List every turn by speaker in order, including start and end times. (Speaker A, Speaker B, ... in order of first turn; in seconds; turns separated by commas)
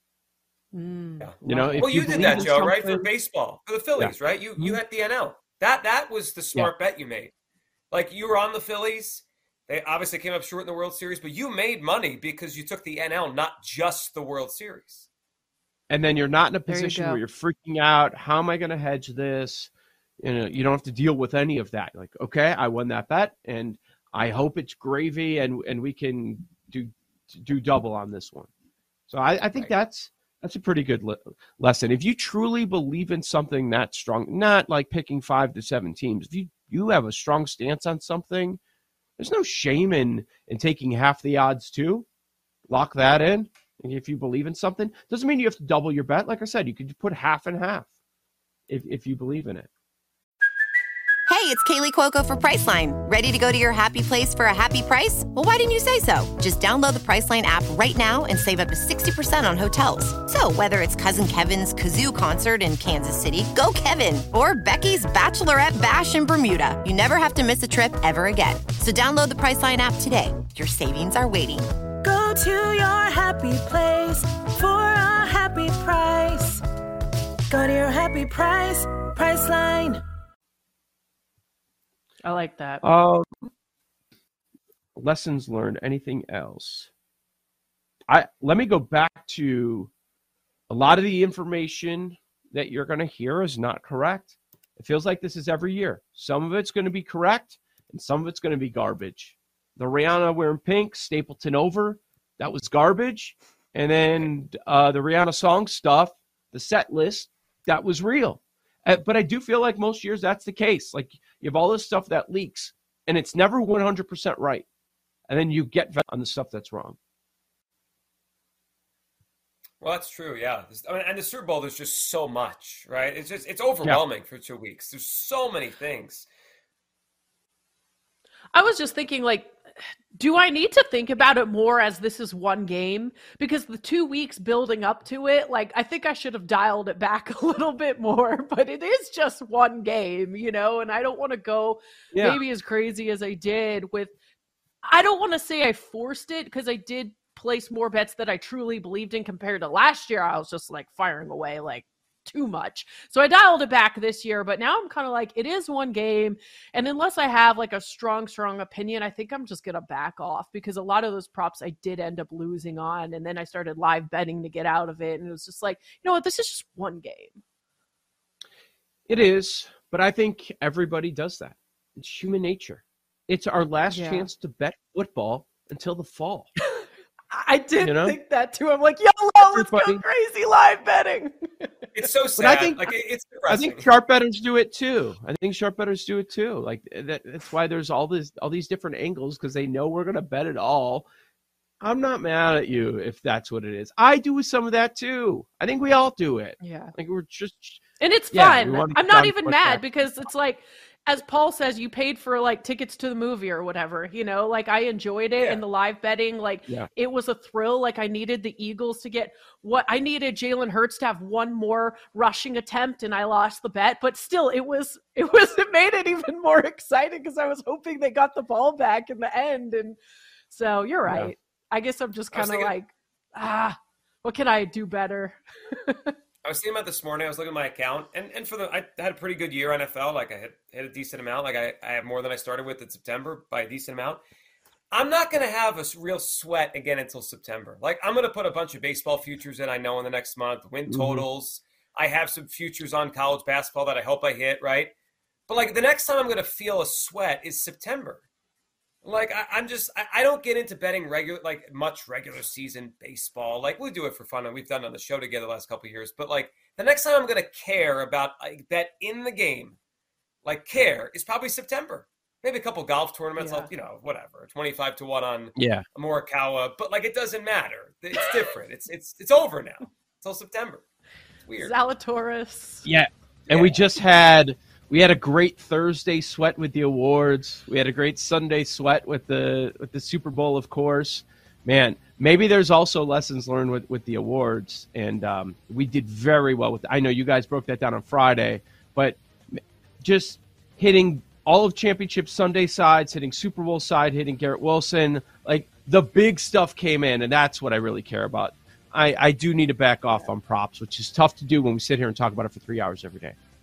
Speaker A: 0.7-2.5, Speaker B: 1.2-7.3, Speaker C: 1.4-3.1, Speaker C: 4.0-4.8, Speaker B: 7.9-15.1, Speaker C: 15.9-28.5, Speaker A: 16.7-17.2, Speaker C: 29.1-38.6, Speaker C: 39.2-42.1, Speaker C: 42.7-47.9, Speaker C: 48.7-49.7, Speaker D: 51.3-71.7, Speaker E: 72.0-76.6, Speaker E: 77.5-80.0, Speaker A: 82.2-82.8, Speaker C: 82.8-83.5, Speaker C: 85.0-86.9, Speaker C: 88.1-89.9, Speaker C: 90.7-114.7, Speaker C: 115.3-117.0, Speaker B: 119.8-126.3, Speaker A: 128.5-129.5, Speaker A: 130.2-144.1, Speaker C: 142.1-142.4, Speaker A: 144.8-167.4, Speaker C: 169.1-176.5, Speaker A: 173.9-174.3, Speaker A: 176.6-181.9, Speaker C: 177.8-178.2, Speaker C: 179.4-180.1, Speaker B: 181.9-183.9, Speaker C: 182.4-182.9, Speaker C: 183.5-191.1, Speaker C: 191.8-200.2, Speaker A: 196.6-196.9, Speaker A: 198.0-220.0, Speaker B: 205.4-205.6, Speaker A: 220.5-226.1, Speaker C: 221.1-221.3, Speaker B: 222.3-222.7, Speaker B: 226.4-234.2, Speaker B: 234.9-244.9, Speaker C: 240.9-241.3, Speaker B: 245.5-248.2, Speaker B: 249.0-259.8, Speaker B: 260.4-270.8, Speaker A: 263.4-263.7, Speaker C: 265.6-265.9, Speaker B: 271.5-271.7, Speaker A: 271.6-272.9, Speaker C: 272.9-303.4, Speaker B: 273.5-273.8